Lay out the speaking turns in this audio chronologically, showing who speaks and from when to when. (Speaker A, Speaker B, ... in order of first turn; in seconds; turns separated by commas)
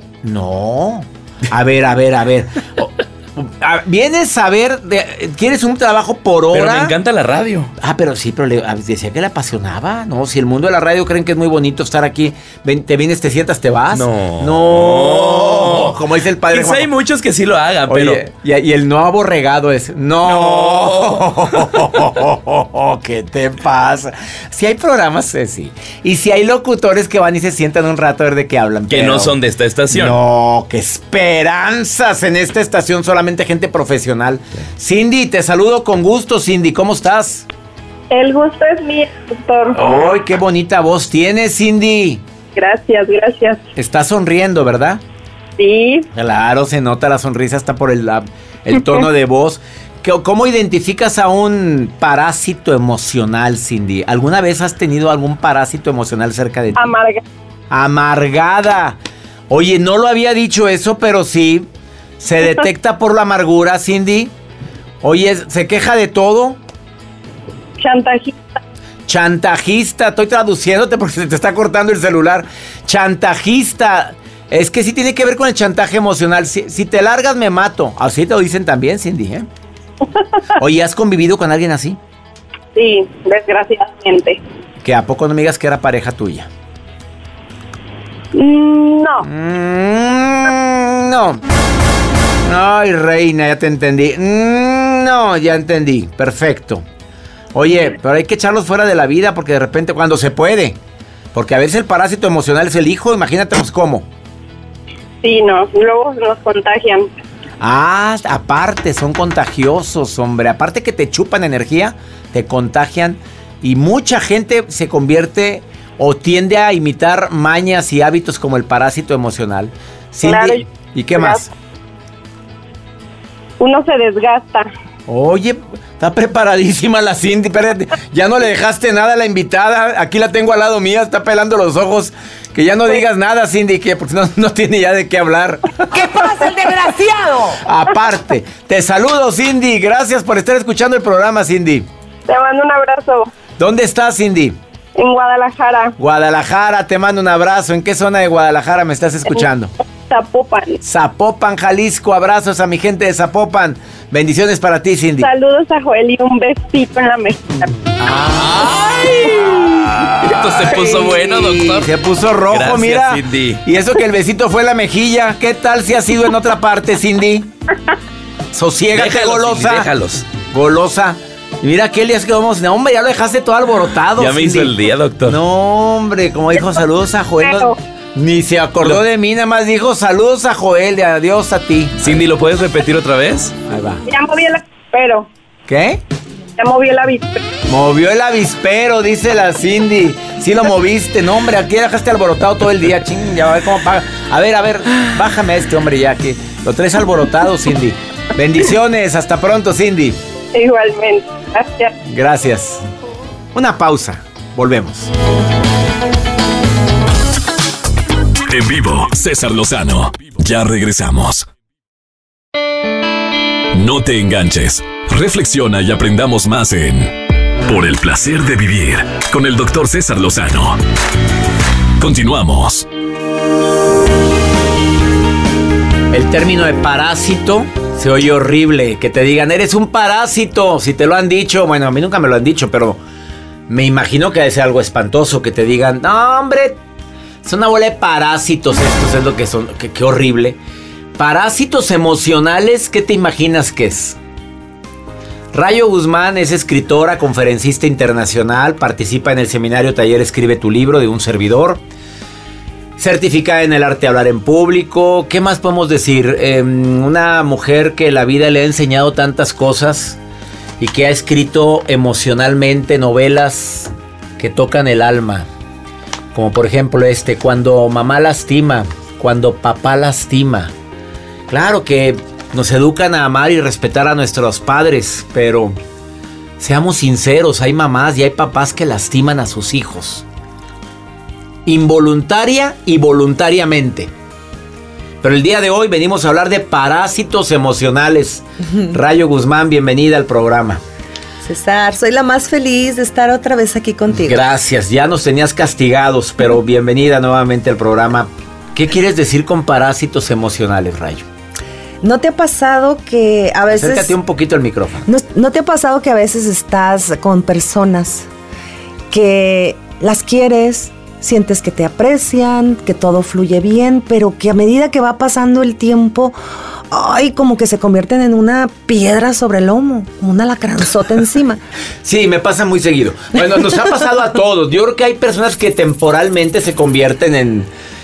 Speaker A: 0.2-7.0, Speaker B: 6.5-7.7, Speaker A: 7.8-16.9, Speaker B: 13.9-16.0, Speaker B: 16.5-18.2, Speaker A: 17.9-29.4, Speaker B: 20.3-21.4, Speaker B: 28.9-30.2, Speaker A: 29.9-37.5, Speaker C: 38.1-39.8, Speaker A: 39.7-42.2, Speaker C: 42.5-43.6, Speaker A: 43.8-45.0, Speaker C: 45.6-46.1, Speaker A: 46.1-57.0, Speaker C: 56.8-57.2, Speaker A: 57.7-64.3, Speaker A: 65.0-66.6, Speaker C: 67.8-68.6, Speaker A: 69.1-79.5, Speaker A: 80.6-82.0, Speaker C: 82.8-84.4, Speaker A: 84.8-86.5, Speaker C: 88.3-89.3, Speaker A: 89.2-91.4, Speaker A: 92.5-96.8, Speaker A: 97.5-100.8, Speaker A: 101.3-104.1, Speaker C: 105.2-107.1, Speaker A: 107.6-121.5, Speaker C: 120.2-120.6, Speaker C: 121.2-121.4, Speaker C: 123.6-124.7, Speaker A: 125.1-136.2, Speaker D: 135.9-137.6, Speaker A: 137.6-141.9, Speaker C: 142.3-143.3, Speaker A: 143.6-144.6, Speaker C: 144.9-145.9, Speaker A: 146.0-149.7, Speaker C: 150.1-150.8, Speaker A: 150.8-155.3, Speaker C: 155.2-157.7, Speaker A: 158.0-167.5, Speaker B: 158.4-161.9, Speaker B: 162.5-163.6, Speaker A: 168.5-169.9, Speaker B: 168.9-170.3, Speaker A: 170.4-182.2, Speaker B: 174.2-175.4, Speaker C: 177.4-177.8, Speaker B: 182.0-183.5, Speaker A: 183.7-184.0, Speaker C: 184.1-185.3, Speaker A: 185.7-186.0, Speaker C: 186.6-187.4, Speaker A: 187.7-200.2, Speaker C: 200.5-202.0, Speaker A: 202.1-202.8, Speaker A: 203.5-205.1, Speaker E: 208.5-211.5, Speaker E: 213.7-220.8, Speaker E: 222.0-222.9, Speaker A: 226.1-233.0, Speaker A: 233.7-236.8, Speaker A: 237.4-240.6, Speaker A: 241.2-244.2, Speaker A: 245.5-251.8, Speaker A: 253.0-260.2, Speaker A: 260.8-265.5, Speaker A: 266.3-270.7, Speaker A: 271.5-275.8, Speaker A: 276.6-280.3, Speaker A: 281.7-284.1, Speaker A: 285.2-290.8, Speaker D: 291.4-294.4, Speaker A: 294.1-301.3, Speaker D: 302.0-304.1, Speaker A: 303.7-305.1, Speaker D: 305.1-308.3, Speaker D: 309.1-316.4, Speaker D: 316.9-321.6, Speaker A: 322.0-327.7